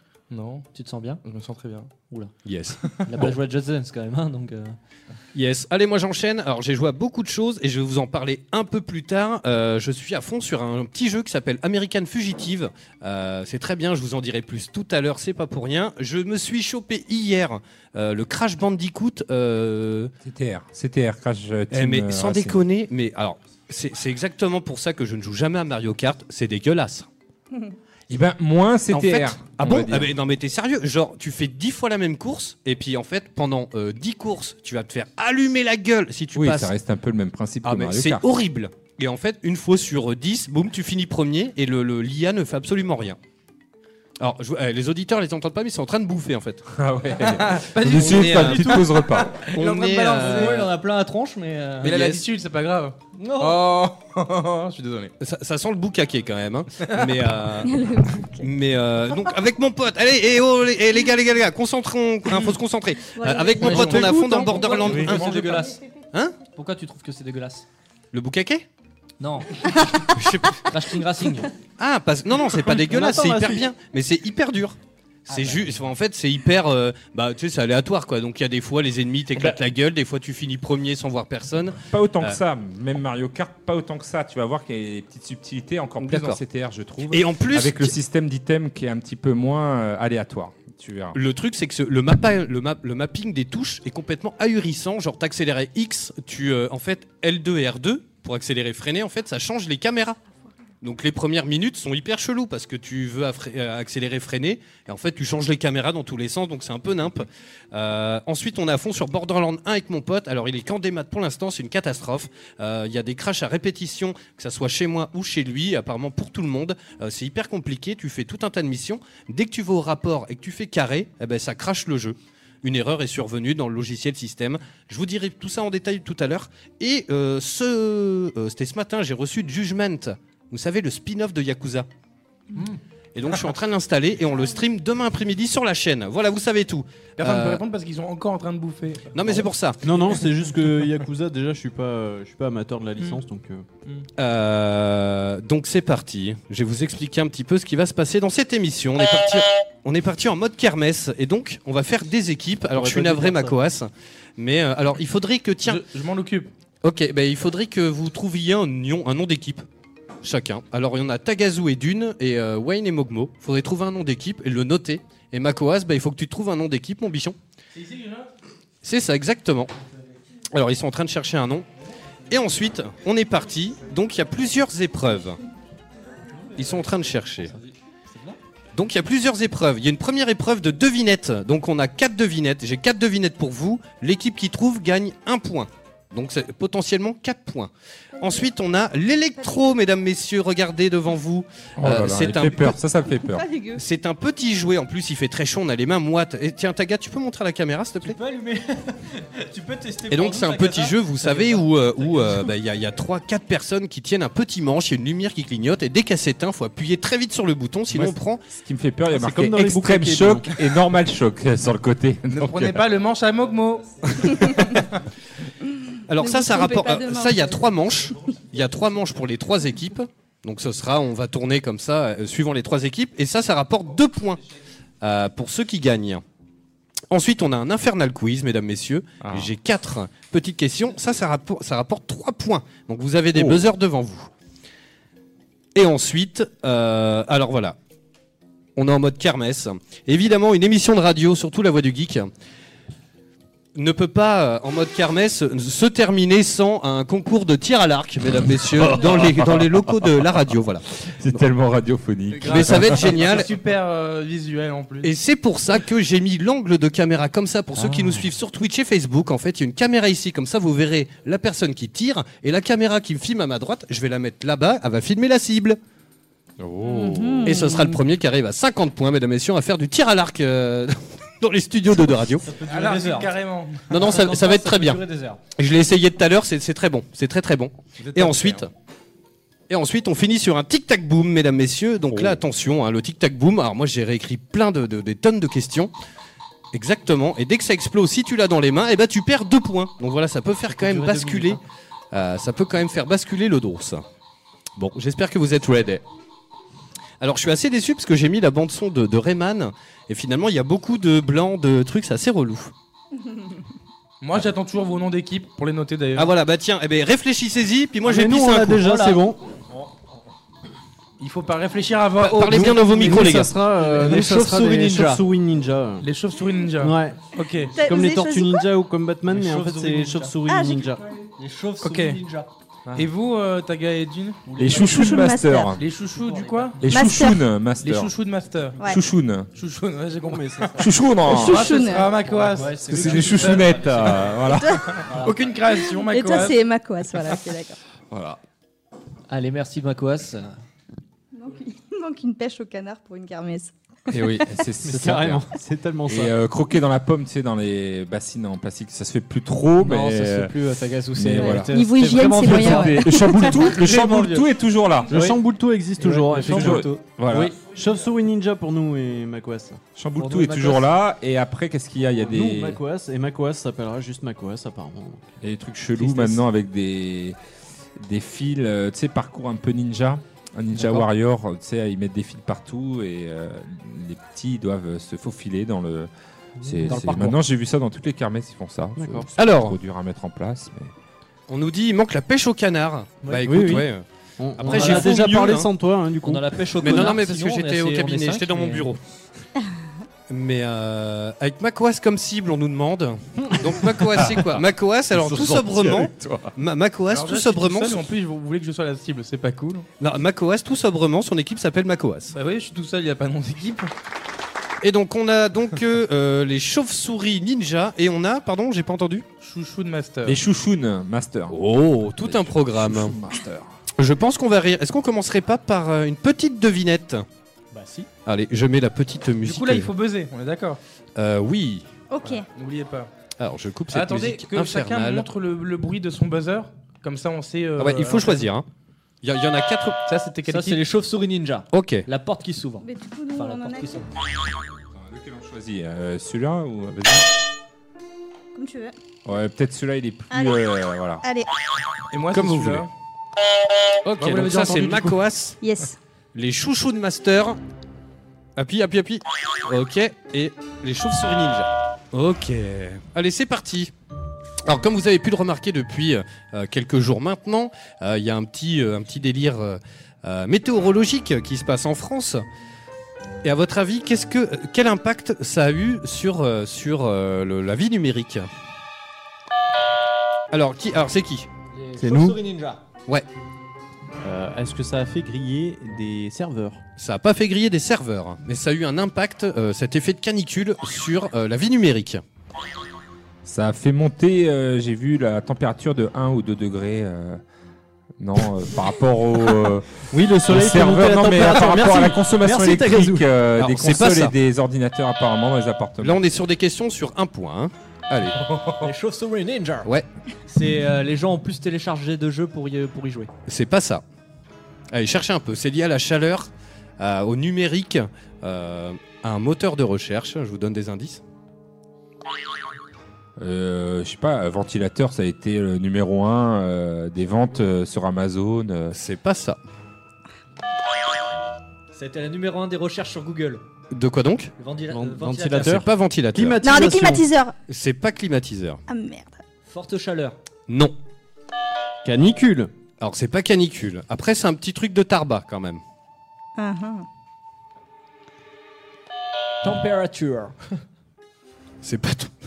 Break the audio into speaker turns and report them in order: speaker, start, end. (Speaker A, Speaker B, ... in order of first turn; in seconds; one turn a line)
Speaker A: 0.3-0.7
Speaker B: 0.7-1.2
Speaker A: 1.2-1.9
Speaker C: 2.4-3.3
Speaker B: 2.9-4.8
Speaker C: 5.3-20.1
Speaker D: 20.2-22.6
Speaker C: 21.7-27.1
Speaker D: 28.1-30.1
Speaker C: 28.9-36.7
Speaker D: 36.3-38.2
Speaker C: 37.6-43.2
Speaker C: 44.2-46.7
Speaker D: 46.7-49.4
Speaker A: 47.5-50.7
Speaker C: 47.8-48.9
Speaker C: 49.5-50.7
Speaker B: 49.9-52.1
Speaker A: 51.8-55.1
Speaker C: 51.8-52.2
Speaker B: 53.1-53.6
Speaker C: 55.2-57.8
Speaker A: 56.8-57.2
Speaker E: 57.6-58.5
Speaker C: 58.4-65.2
Speaker E: 59.1-59.4
Speaker A: 62.3-62.5
Speaker E: 63.1-65.0
Speaker A: 63.5-65.8
Speaker B: 63.6-65.8
Speaker E: 65.6-66.0
Speaker B: 66.5-67.7
Speaker C: 68.1-68.6
Speaker B: 69.2-69.7
Speaker C: 70.1-70.7
Speaker B: 70.6-71.5
Speaker C: 71.8-82.4
Speaker F: 72.7-73.7
Speaker B: 75.3-75.7
Speaker D: 81.9-91.2
Speaker C: 86.0-86.4
Speaker C: 87.1-87.9
Speaker C: 91.1-100.2
Speaker C: 100.8-131.9
Speaker C: 133.1-137.6
Speaker A: 137.2-139.5
Speaker C: 139.1-139.8
Speaker F: 139.8-143.7
Speaker C: 144.2-155.8
Speaker F: 152.7-153.5
Speaker A: 155.7-156.5
Speaker C: 156.8-159.6
Speaker C: 160.2-167.4
Speaker A: 167.8-168.3
Speaker C: 168.8-169.7
Speaker C: 170.5-171.7
Speaker C: 172.3-175.4
Speaker C: 176.6-177.5
Speaker C: 178.7-192.8
Speaker E: 188.2-188.5
Speaker E: 189.4-189.7
Speaker D: 191.8-193.5
Speaker E: 193.2-193.8
Speaker C: 193.7-198.2
Speaker B: 198.0-201.7
Speaker C: 200.1-208.4
Speaker D: 207.9-212.8
Speaker F: 209.1-210.6
Speaker A: 212.3-214.6
Speaker C: 216.1-224.4
Speaker E: 216.1-217.7
Speaker C: 225.0-226.2
Speaker C: 227.1-234.3
Speaker C: 235.7-237.8
Speaker C: 238.8-242.3
Speaker C: 243.7-251.4
Speaker D: 248.4-250.1
Speaker D: 251.2-253.1
Speaker A: 252.4-255.1
Speaker C: 252.4-253.5
Speaker C: 255.0-265.8
Speaker D: 257.8-258.2
Speaker D: 266.6-267.7
Speaker E: 266.8-267.9
Speaker C: 267.4-272.4
Speaker B: 272.4-273.3
Speaker A: 272.6-274.0
Speaker C: 273.9-275.0
Speaker B: 273.9-275.4
Speaker C: 275.6-278.7
Speaker A: 278.0-278.7
Speaker C: 279.7-285.9
Speaker D: 282.1-282.4
Speaker C: 286.7-291.6
Speaker B: 290.7-291.6
Speaker C: 292.1-294.0
Speaker C: 294.8-296.0
Speaker C: 297.2-302.7
Speaker A: 304.2-306.3
Speaker C: 306.1-308.8
Speaker F: 308.0-309.4
Speaker B: 308.7-309.2
Speaker A: 311.2-313.3
Speaker C: 312.2-313.5
Speaker F: 312.5-316.1
Speaker B: 313.9-315.2
Speaker A: 316.0-317.8
Speaker F: 316.8-321.0
Speaker E: 317.7-318.7
Speaker B: 319.3-320.3
Speaker E: 320.5-320.9
Speaker B: 321.4-322.5
Speaker A: 321.8-322.2
Speaker A: 322.9-324.4
Speaker B: 324.5-325.3
Speaker D: 324.6-325.8
Speaker E: 324.8-325.8
Speaker A: 325.8-326.9
Speaker B: 326.1-326.7
Speaker D: 326.8-328.1
Speaker E: 326.9-327.4
Speaker A: 327.8-328.8
Speaker E: 328.8-329.0
Speaker D: 328.8-329.5
Speaker A: 329.6-330.7
Speaker F: 330.2-331.0
Speaker D: 330.8-331.8
Speaker A: 331.3-333.7
Speaker E: 331.3-332.2
Speaker B: 332.2-334.4
Speaker D: 332.9-335.0
Speaker E: 334.5-334.9
Speaker A: 335.0-336.6
Speaker B: 335.0-335.5
Speaker E: 335.7-337.8
Speaker D: 338.1-338.4
Speaker B: 339.3-340.6
Speaker E: 341.3-344.4
Speaker D: 344.1-350.5
Speaker F: 344.9-346.3
Speaker B: 349.8-354.5
Speaker D: 351.1-355.2
Speaker E: 351.4-353.7
Speaker B: 355.1-355.4
Speaker F: 355.1-359.8
Speaker B: 356.0-357.0
Speaker D: 356.4-357.5
Speaker D: 359.9-362.8
Speaker B: 360.2-360.9
Speaker F: 362.2-365.4
Speaker D: 365.4-367.4
Speaker F: 366.0-366.4
Speaker D: 368.0-376.1
Speaker F: 376.6-377.0
Speaker D: 376.6-380.9
Speaker B: 376.9-377.4
Speaker F: 379.0-379.3
Speaker C: 379.4-379.8
Speaker C: 381.5-384.0
Speaker B: 383.2-383.8
Speaker F: 383.4-383.9
Speaker F: 384.4-387.2
Speaker C: 384.6-385.7
Speaker B: 384.7-385.1
Speaker B: 386.2-388.9
Speaker C: 386.8-389.0
Speaker C: 390.3-398.0
Speaker D: 394.1-394.6
Speaker D: 395.1-396.5
Speaker A: 397.1-399.9
Speaker C: 400.0-402.3
Speaker A: 402.3-403.9
Speaker C: 404.8-409.2
Speaker A: 409.4-410.4
Speaker D: 410.2-411.6
Speaker C: 411.5-413.1
Speaker D: 412.2-413.7
Speaker C: 414.0-417.2
Speaker B: 417.7-418.1
Speaker C: 418.2-419.9
Speaker A: 419.4-420.8
Speaker C: 421.1-421.9
Speaker E: 422.1-422.4
Speaker A: 422.2-423.1
Speaker C: 423.4-425.3
Speaker A: 423.9-428.5
Speaker C: 427.8-428.6
Speaker C: 429.2-430.0
Speaker A: 430.1-430.8
Speaker B: 430.4-434.1
Speaker C: 431.7-432.0
Speaker E: 432.8-434.0
Speaker D: 434.9-437.3
Speaker E: 438.5-438.9
Speaker D: 439.2-441.2
Speaker E: 440.3-440.6
Speaker E: 441.2-441.5
Speaker A: 442.1-442.9
Speaker C: 442.3-442.7
Speaker C: 444.0-445.6
Speaker A: 444.2-445.2
Speaker E: 445.6-446.0
Speaker C: 446.3-447.6
Speaker C: 448.6-453.9
Speaker C: 454.6-462.4
Speaker C: 463.4-468.4
Speaker C: 470.5-471.5
Speaker B: 471.7-472.8
Speaker F: 472.0-472.4
Speaker F: 474.2-476.8
Speaker C: 477.0-482.2
Speaker D: 483.4-487.4
Speaker D: 488.2-496.2
Speaker F: 490.1-493.2
Speaker C: 493.6-494.3
Speaker C: 496.0-498.5
Speaker B: 498.8-499.9
Speaker B: 500.5-503.3
Speaker C: 503.5-504.0
Speaker C: 504.9-511.2
Speaker D: 513.4-519.0
Speaker C: 518.9-519.6
Speaker B: 521.9-523.6
Speaker C: 523.9-524.5
Speaker B: 524.6-525.8
Speaker F: 524.9-527.2
Speaker C: 525.6-526.6
Speaker E: 526.6-527.5
Speaker C: 527.7-528.8
Speaker E: 528.9-529.4
Speaker B: 529.6-530.4
Speaker C: 530.7-530.9
Speaker F: 532.0-532.7
Speaker C: 533.0-535.8
Speaker E: 536.6-537.0
Speaker B: 539.6-540.5
Speaker C: 541.8-542.3